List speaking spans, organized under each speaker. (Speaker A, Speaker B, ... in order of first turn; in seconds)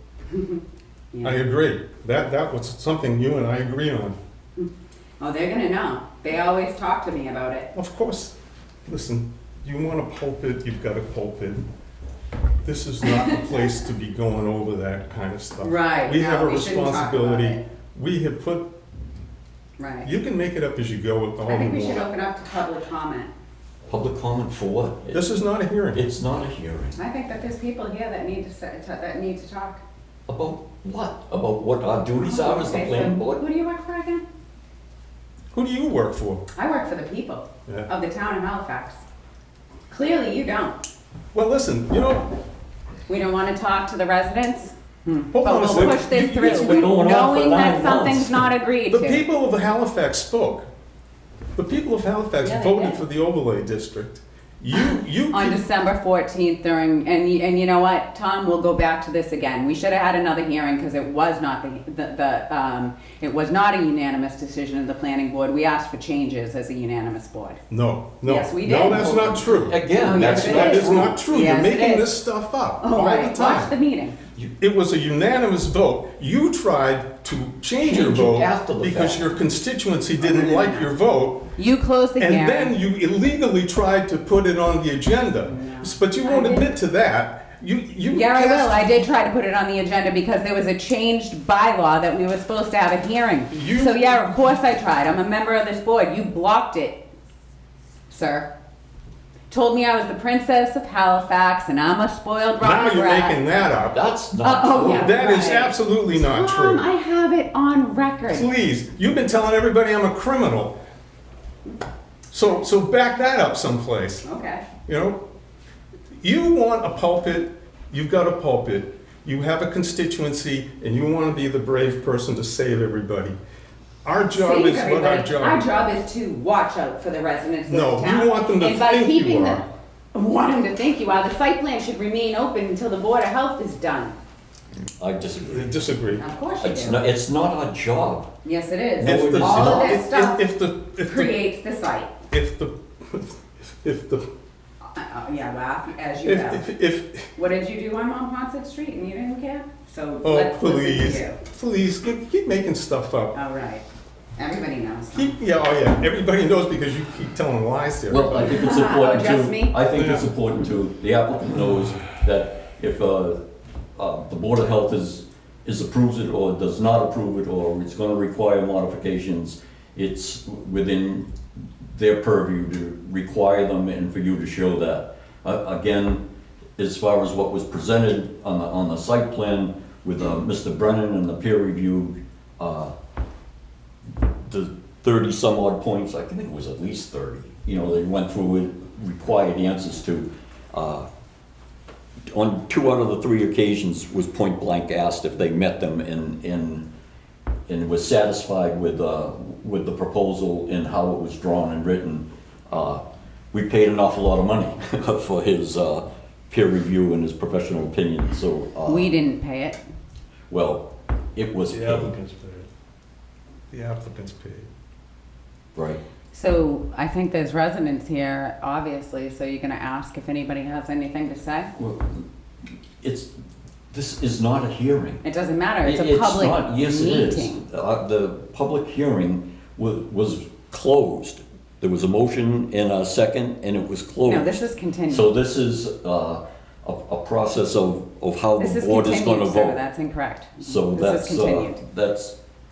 Speaker A: 0.3-0.6, 1.1-1.4, 4.6-7.7, 13.0-13.8, 15.6-17.6, 19.8-20.1, 21.4-23.3, 26.9-29.8, 32.2-34.2, 36.5-39.0, 39.9-40.8, 43.1-49.2, 52.4-53.0, 54.7-67.6, 68.2-69.3, 70.0-72.2, 72.8-74.2, 80.2-80.9, 81.6-82.8, 85.4-86.7, 88.1-97.0, 98.1-98.5, 99.5-103.4, 104.4-108.5, 114.2-114.7, 124.3-134.2, 136.2-137.0, 138.4-140.4, 141.0-142.1, 144.9-146.7, 147.3-151.4, 153.3-153.8, 154.4-155.3, 158.3-159.8, 208.8-209.8, 216.3-221.7, 225.2-227.7, 234.2-235.3, 238.6-241.8
Speaker B: 1.2-4.2, 7.7-8.3, 8.9-11.6, 12.6-18.7, 20.0-22.1, 25.1-26.1, 35.5-36.4, 41.3-42.3, 45.3-46.9, 48.9-50.7, 51.5-55.6, 67.7-73.7, 74.6-81.5, 82.2-89.1, 93.5-94.4, 102.6-104.0, 104.9-106.8, 108.3-110.8, 112.3-114.2, 114.8-115.2, 116.2-123.4, 124.0-125.7, 127.7-129.6, 135.4-136.2, 139.0-141.4, 142.3-144.2, 146.2-147.3, 150.2-153.3, 155.1-158.7, 159.9-160.3, 211.7-212.7, 213.7-214.7
Speaker C: 23.9-25.3, 25.9-27.0, 30.3-33.4, 45.6-48.5, 68.9-71.2, 77.8-79.4, 103.9-105.1, 135.0-135.8, 136.6-138.3, 139.0-140.0, 158.1-163.4, 164.0-171.3, 171.9-176.2, 176.8-182.9, 184.5-191.1, 192.3-196.8, 197.7-203.0, 203.5-209.1, 210.5-212.1, 215.7-216.0, 221.8-222.2, 223.0-223.3, 223.9-225.2, 225.8-239.8, 240.6-242.3